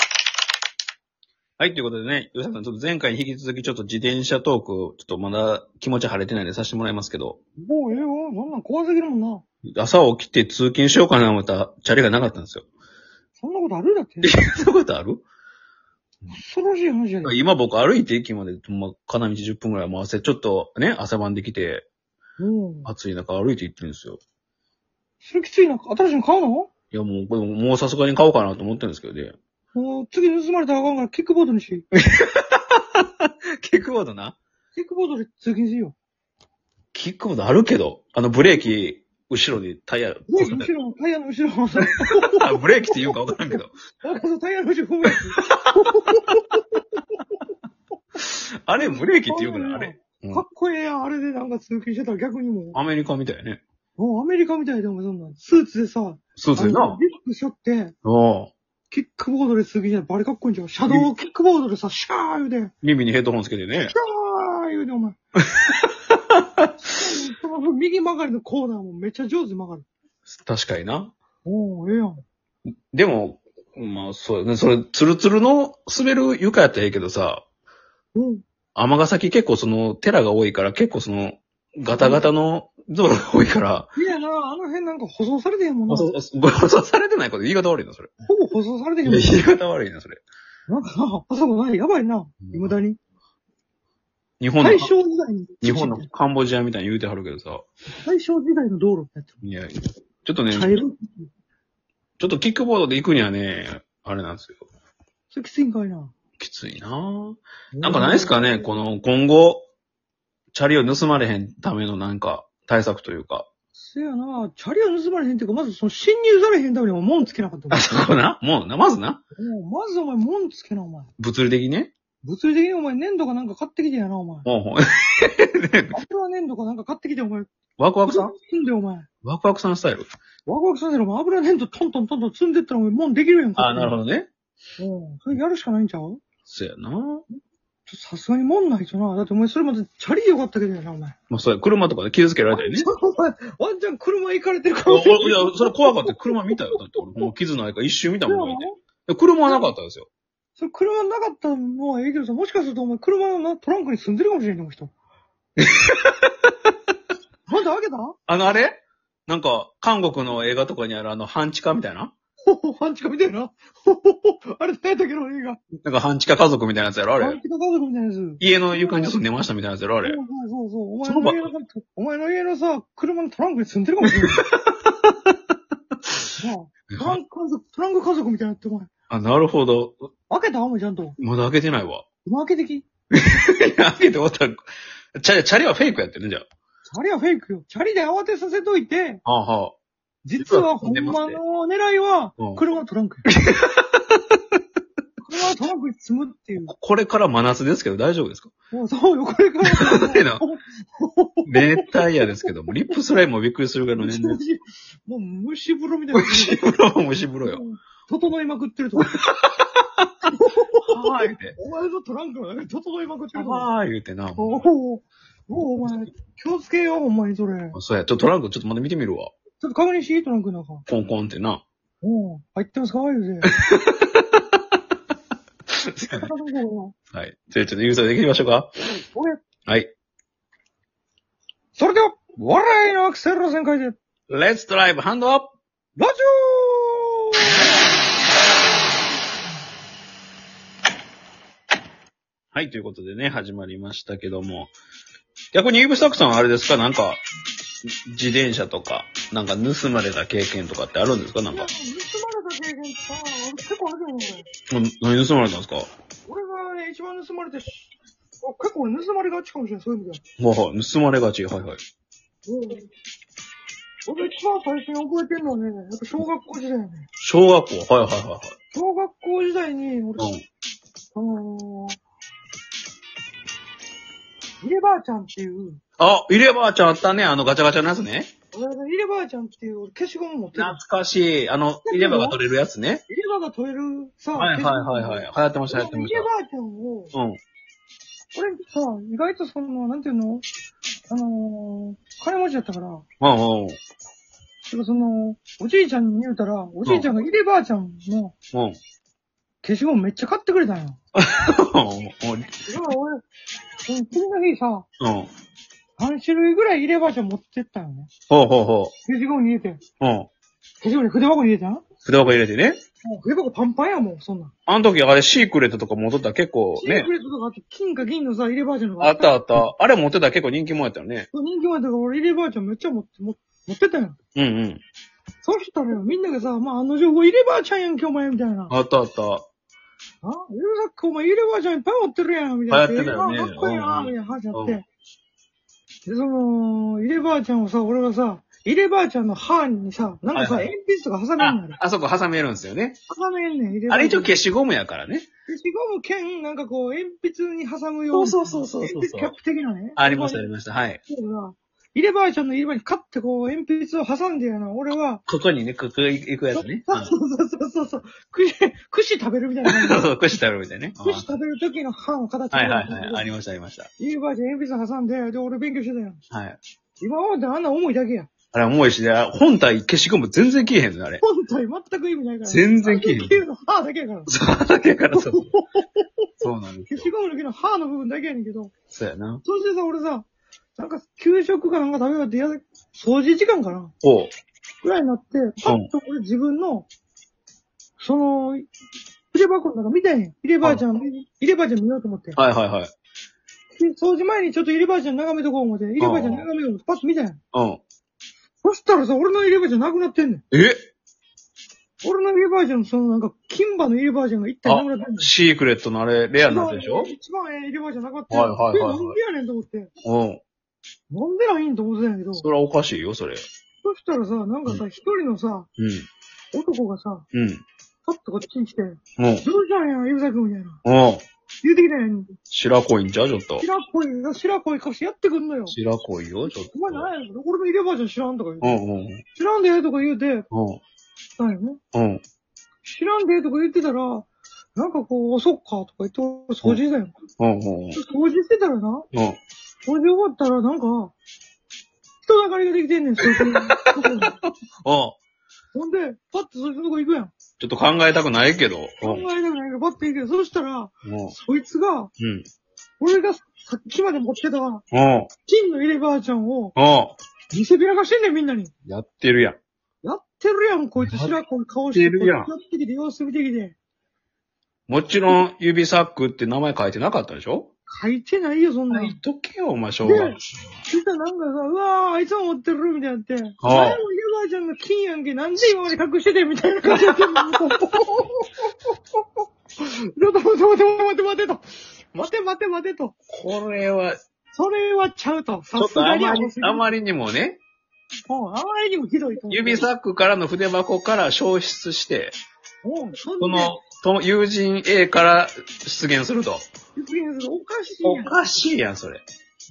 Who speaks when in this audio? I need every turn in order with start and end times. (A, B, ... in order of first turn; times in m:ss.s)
0:01.6-0:07.4 A
0:07.6-0:09.4 B
0:09.7-0:12.6 A
0:13.4-0:14.3 B
0:14.2-0:15.2 A
0:16.3-0:17.4 B
0:17.2-0:21.8 A
0:22.4-0:22.9 B
0:22.8-0:24.2 A
0:25.2-0:26.7 B
0:26.9-0:29.4 A
0:29.7-0:31.8 B
0:31.9-0:34.4 A
0:34.7-0:35.9 B
0:36.9-0:40.7 A
0:40.3-0:46.8 B
0:41.9-0:43.7 A
0:45.4-0:46.0 A
0:48.2-0:50.4 A
0:48.8-0:52.8 B
0:52.7-0:53.6 A
0:54.0-0:57.9 B
0:56.4-0:57.0 A
0:58.0-0:58.5 A
0:58.9-1:02.7 B
1:02.8-1:03.9 A
1:03.9-1:05.2 B
1:05.5-1:06.7 A
1:06.8-1:09.8 B
1:10.2-1:11.1 A
1:11.4-1:12.2 B
1:12.9-1:17.4 A
1:18.1-1:18.4 B
1:18.7-1:23.9 A
1:21.9-1:22.3 B
1:23.9-1:26.1 B
1:25.9-1:28.1 A
1:28.2-1:29.4 B
1:29.0-1:30.2 A
1:30.7-1:33.0 B
1:32.4-1:32.8 A
1:34.4-1:34.9 A
1:34.6-1:36.1 B
1:35.6-1:37.6 A
1:38.0-1:39.4 B
1:39.4-1:40.8 A
1:40.5-1:41.3 B
1:42.2-1:44.6 A
1:45.3-1:46.1 B
1:46.4-1:49.6 A
1:47.7-1:48.7 B
1:50.5-1:53.5 A
1:53.8-1:58.0 B
1:57.7-1:59.2 A
1:59.4-2:01.1 B
2:01.2-2:01.9 A
2:02.2-2:04.4 B
2:04.4-2:06.0 A
2:05.9-2:07.5 B
2:07.8-2:08.3 A
2:08.1-2:09.1 B
2:09.2-2:10.1 A
2:10.4-2:14.0 B
2:13.6-2:14.3 A
2:14.8-2:16.2 B
2:16.4-2:17.2 A
2:17.9-2:21.1 B
2:21.3-2:22.9 A
2:22.5-2:27.3 B
2:24.8-2:30.1 A
2:28.2-2:28.8 B
2:29.4-2:29.7 B
2:30.6-2:34.9 B
2:35.6-2:36.5 A
2:37.5-2:38.2 B
2:38.3-2:42.1 A
2:42.4-2:45.6 B
2:45.8-2:47.4 A
2:47.2-2:49.1 B
2:48.4-2:50.2 A
2:50.0-2:54.5 B
2:51.0-2:51.4 A
2:54.2-2:55.3 A
2:56.4-2:58.9 B
2:56.9-2:57.2 A
2:59.1-3:00.1 A
3:00.3-3:01.2 B
3:01.2-3:02.0 A
3:02.2-3:02.8 B
3:03.1-3:06.4 A
3:06.9-3:09.2 B
3:09.2-3:09.8 A
3:10.2-3:13.3 B
3:10.4-3:11.4 A
3:13.2-3:14.4 A
3:15.2-3:16.7 B
3:16.7-3:18.5 A
3:18.7-3:22.2 B
3:19.6-3:20.4 A
3:21.5-3:24.4 A
3:24.0-3:26.7 B
3:26.1-3:27.6 A
3:27.4-3:29.2 B
3:29.0-3:30.1 A
3:30.3-3:33.7 B
3:30.9-3:31.6 A
3:33.3-3:34.6 A
3:34.4-3:37.8 B
3:37.7-3:39.3 A
3:39.6-3:40.8 B
3:40.9-3:41.6 A
3:42.0-3:43.5 B
3:43.4-3:44.6 A
3:45.7-3:46.3 A
3:46.1-3:46.9 B
3:47.1-3:48.7 A
3:49.0-3:49.4 B
3:49.6-3:49.9 A
3:51.8-3:54.0 B
3:54.3-3:55.5 A
3:56.0-3:57.5 B
4:02.5-4:04.7 A
4:05.5-4:07.2 A
4:07.9-4:11.7 A
4:11.5-4:14.5 B
4:14.7-4:15.9 A
4:16.3-4:17.8 B
4:18.4-4:20.2 B
4:20.4-4:21.8 A
4:22.4-4:22.9 B
4:24.0-4:27.1 B
4:27.2-4:28.5 A
4:28.7-4:30.3 B
4:30.2-4:30.4 A
4:31.1-4:32.0 B
4:34.6-4:35.8 B
4:36.0-4:38.3 A
4:38.5-4:40.8 B
4:40.5-4:43.0 A
4:41.8-4:42.4 B
4:43.1-4:47.1 B
4:44.3-4:46.3 A
4:47.1-4:47.4 A
4:48.3-4:50.4 B
4:51.1-4:53.0 B
4:53.2-4:53.8 A
4:54.7-4:58.3 B
4:59.6-5:01.0 B
5:01.2-5:02.5 A
5:02.7-5:03.2 B
5:03.8-5:04.8 B
5:05.0-5:05.3 A
5:06.0-5:08.1 B
5:08.3-5:08.9 A
5:09.1-5:09.8 B
5:10.0-5:10.3 A
5:10.8-5:11.8 B
5:12.0-5:12.8 A
5:13.0-5:14.5 B
5:14.7-5:17.1 A
5:16.8-5:19.7 B
5:19.0-5:21.3 A
5:21.3-5:24.2 B
5:24.3-5:24.8 A
5:25.4-5:28.7 B
5:28.7-5:29.4 A
5:30.2-5:34.8 B
5:32.7-5:34.8 A
5:36.0-5:41.8 B
5:40.3-5:40.7 A
5:41.4-5:43.0 A
5:43.1-5:44.3 B
5:43.9-5:45.3 A
5:45.5-5:50.5 B
5:48.1-5:49.3 A
5:50.0-5:51.0 A
5:51.1-5:55.2 B
5:55.3-5:57.1 A
5:56.5-6:00.0 B
5:59.6-6:01.3 A
6:01.0-6:03.2 B
6:02.5-6:03.9 A
6:04.0-6:06.2 B
6:06.3-6:06.6 A
6:07.0-6:08.3 B
6:08.5-6:11.2 A
6:11.2-6:14.3 B
6:12.5-6:13.4 A
6:14.3-6:15.5 A
6:15.1-6:16.2 B
6:16.4-6:17.1 A
6:16.9-6:18.7 B
6:18.9-6:19.4 A
6:19.4-6:20.2 B
6:20.8-6:23.9 B
6:24.0-6:24.3 A
6:24.8-6:26.9 B
6:28.0-6:28.7 B
6:29.3-6:32.4 B
6:32.4-6:32.9 A
6:33.8-6:37.4 B
6:36.0-6:36.5 A
6:37.5-6:37.8 A
6:38.6-6:40.4 B
6:40.5-6:40.8 A
6:42.0-6:45.3 B
6:44.6-6:47.1 A
6:46.4-6:49.9 B
6:48.3-6:49.2 A
6:50.0-6:50.4 A
6:51.1-6:52.5 B
6:52.4-6:53.4 A
6:53.8-6:55.7 B
6:55.8-6:56.1 A
6:56.5-6:57.2 B
6:57.3-6:57.6 A
6:58.0-7:00.8 B
6:59.2-6:59.4 A
7:00.8-7:01.2 A
7:01.6-7:02.3 B
7:02.5-7:03.6 A
7:03.6-7:05.8 B
7:05.7-7:07.1 A
7:06.7-7:08.8 B
7:08.6-7:09.2 A
7:09.4-7:10.4 B
7:10.5-7:10.8 A
7:11.4-7:11.8 B
7:11.9-7:12.2 A
7:12.8-7:17.1 B
7:17.4-7:18.0 A
7:17.9-7:19.1 B
7:19.1-7:19.4 A
7:19.8-7:21.1 B
7:22.2-7:24.3 B
7:23.2-7:25.2 A
7:25.7-7:27.3 B
7:27.6-7:29.2 A
7:29.0-7:32.1 B
7:31.0-7:31.3 A
7:32.2-7:32.4 A
7:33.0-7:34.8 B
7:34.9-7:35.3 A
7:35.5-7:36.7 B
7:36.8-7:37.2 A
7:37.5-7:38.7 B
7:38.9-7:39.6 A
7:40.0-7:43.8 B
7:41.0-7:41.3 A
7:41.9-7:42.5 A
7:44.9-7:47.7 A
7:47.9-7:49.2 B
7:48.9-7:50.5 A
7:50.0-7:59.2 B
7:53.6-7:54.0 A
7:56.9-7:57.6 A
7:59.8-8:03.1 B
8:03.3-8:04.2 A
8:04.5-8:06.8 B
8:05.8-8:07.6 A
8:08.3-8:09.9 B
8:09.5-8:12.4 A
8:12.8-8:13.7 B
8:13.4-8:16.7 A
8:17.0-8:18.3 B
8:18.0-8:19.2 A